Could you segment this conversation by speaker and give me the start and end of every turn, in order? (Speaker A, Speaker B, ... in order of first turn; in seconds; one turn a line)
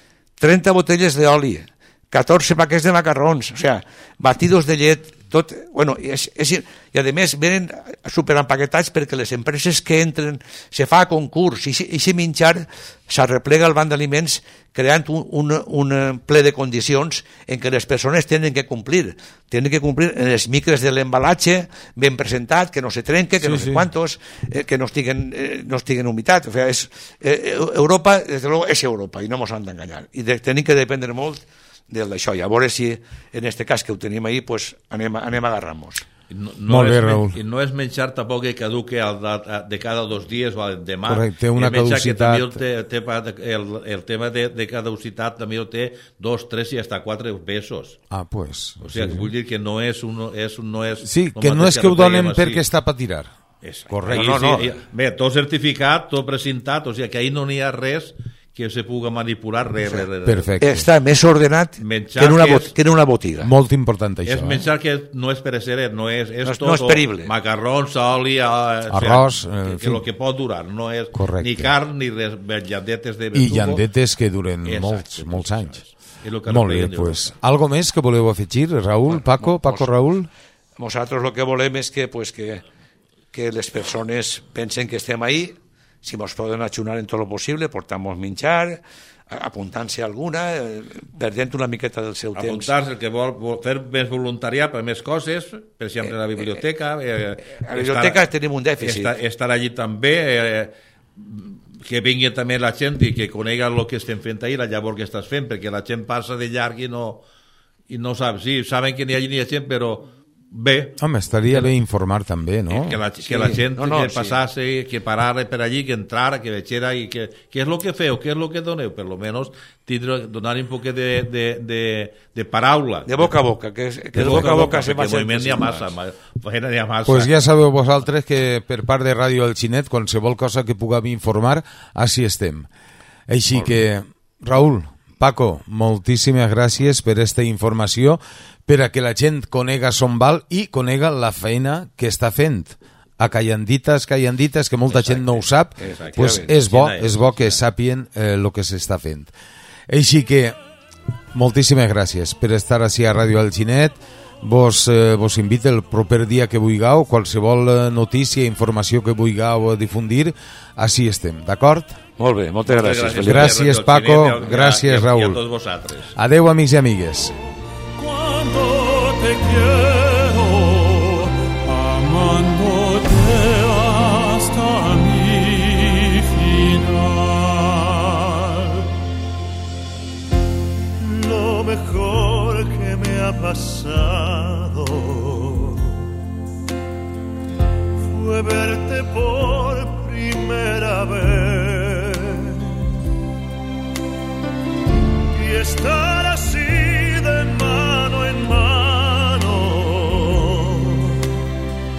Speaker A: 0.4-36.1
Speaker B: 23.4-23.9
Speaker C: 36.3-48.0
Speaker B: 36.7-37.4
Speaker B: 41.0-42.6
Speaker B: 48.1-49.3
Speaker C: 48.8-52.6
Speaker B: 51.0-53.3
Speaker C: 53.6-60.6
Speaker B: 53.9-54.5
Speaker A: 54.1-54.8
Speaker B: 60.3-60.9
Speaker A: 60.6-63.5
Speaker C: 61.8-62.7
Speaker B: 63.4-64.7
Speaker C: 64.3-73.8
Speaker A: 66.5-67.3
Speaker B: 68.9-70.0
Speaker B: 71.1-71.7
Speaker B: 73.3-75.8
Speaker C: 74.6-77.3
Speaker B: 76.5-80.3
Speaker A: 79.1-79.9
Speaker A: 80.8-82.6
Speaker A: 83.3-92.7
Speaker C: 92.4-98.3
Speaker A: 97.7-99.1
Speaker C: 98.8-107.2
Speaker C: 107.9-111.0
Speaker B: 111.0-113.0
Speaker C: 112.7-123.3
Speaker A: 113.2-114.4
Speaker A: 123.1-125.9
Speaker C: 124.2-127.3
Speaker B: 124.2-124.7
Speaker B: 127.1-132.7
Speaker B: 133.3-149.3
Speaker C: 144.9-147.6
Speaker A: 145.8-146.5
Speaker B: 149.9-150.6
Speaker B: 151.3-162.0
Speaker A: 162.2-163.6
Speaker C: 162.7-166.1
Speaker B: 163.2-165.4
Speaker B: 166.2-167.3
Speaker D: 168.0-178.9
Speaker D: 181.0-186.1
Speaker D: 188.0-192.9
Speaker D: 195.3-201.3